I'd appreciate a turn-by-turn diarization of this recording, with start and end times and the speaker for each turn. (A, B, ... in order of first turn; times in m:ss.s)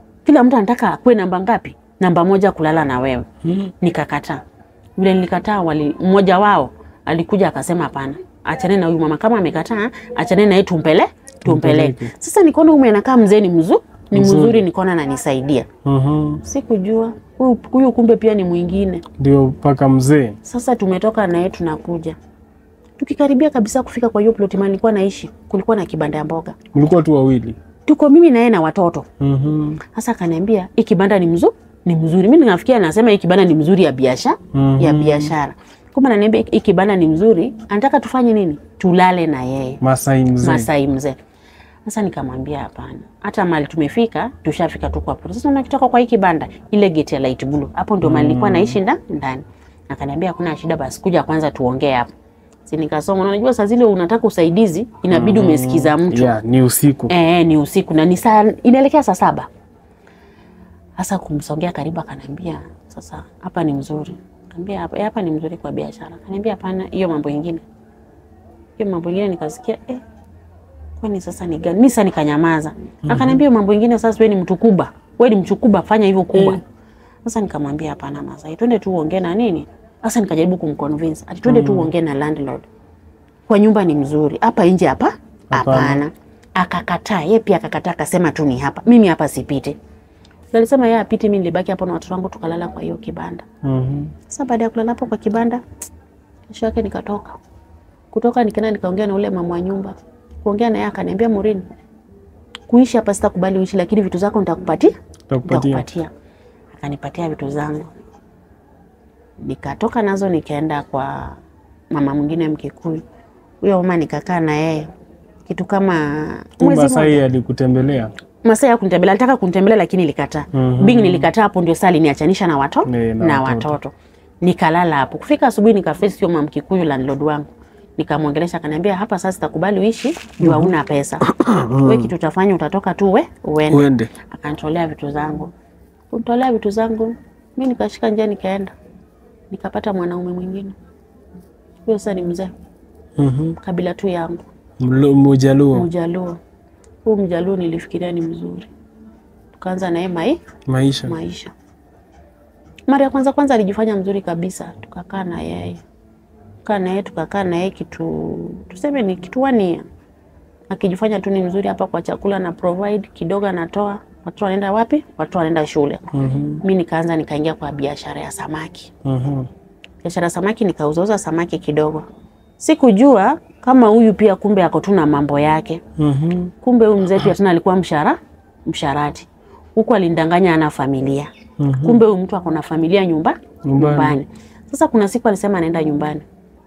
0:00.2-0:03.3 A
0:03.4-0:03.7 B
0:03.8-0:04.4 A
0:05.0-0:15.7 A
0:11.4-0:12.1 B
0:14.1-0:14.6 B
0:15.8-0:16.4 B
0:16.4-0:19.0 A
0:19.2-0:20.4 B
0:20.4-0:22.2 A
0:23.0-0:26.6 A
0:26.7-0:27.6 B
0:27.9-0:29.1 A
0:29.2-0:29.8 B
0:29.9-0:39.8 A
0:34.5-0:35.3 B
0:39.8-0:40.7 B
0:40.4-0:41.2 A
0:41.8-0:52.1 A
0:48.0-0:48.8 B
0:52.6-0:56.3 A
0:55.1-0:57.1 B
0:57.1-0:59.5 A
1:01.0-1:07.6 A
1:08.8-1:10.0 A
1:11.0-1:16.6 A
1:13.1-1:13.4 B
1:16.3-1:16.6 B
1:17.2-1:22.6 A
1:21.5-1:21.9 B
1:23.5-1:29.8 A
1:25.5-1:26.0 B
1:30.5-1:33.4 A
1:33.6-1:34.1 B
1:34.3-1:35.6 A
1:36.5-1:37.4 A
1:38.1-1:41.6 A
1:42.7-1:44.9 A
1:45.3-1:45.9 B
1:45.4-1:46.1 A
1:46.7-1:47.9 A
1:49.4-1:51.4 A
1:51.9-1:53.0 A
1:53.6-1:54.9 A
1:55.5-1:57.2 A
1:56.6-1:58.1 B
1:58.4-2:11.3 A
2:00.5-2:01.3 B
2:02.8-2:03.8 B
2:10.4-2:12.1 B
2:11.8-2:15.5 A
2:13.7-2:14.1 B
2:16.1-2:18.7 A
2:19.5-2:20.8 A
2:21.8-2:22.5 A
2:23.2-2:23.6 B
2:23.6-2:24.4 A
2:24.8-2:25.9 B
2:25.7-2:26.4 A
2:27.0-2:28.7 A
2:29.6-2:30.4 A
2:30.7-2:31.2 B
2:31.0-2:31.5 A
2:32.9-2:35.8 A
2:36.6-2:39.8 A
2:40.7-2:46.1 A
2:46.1-2:46.6 B
2:46.6-2:48.9 A
2:49.0-2:49.5 B
2:50.0-2:52.1 A
2:52.6-2:55.8 A
2:56.0-2:56.5 B
2:56.6-3:06.2 A
3:01.6-3:02.0 B
3:03.6-3:04.2 B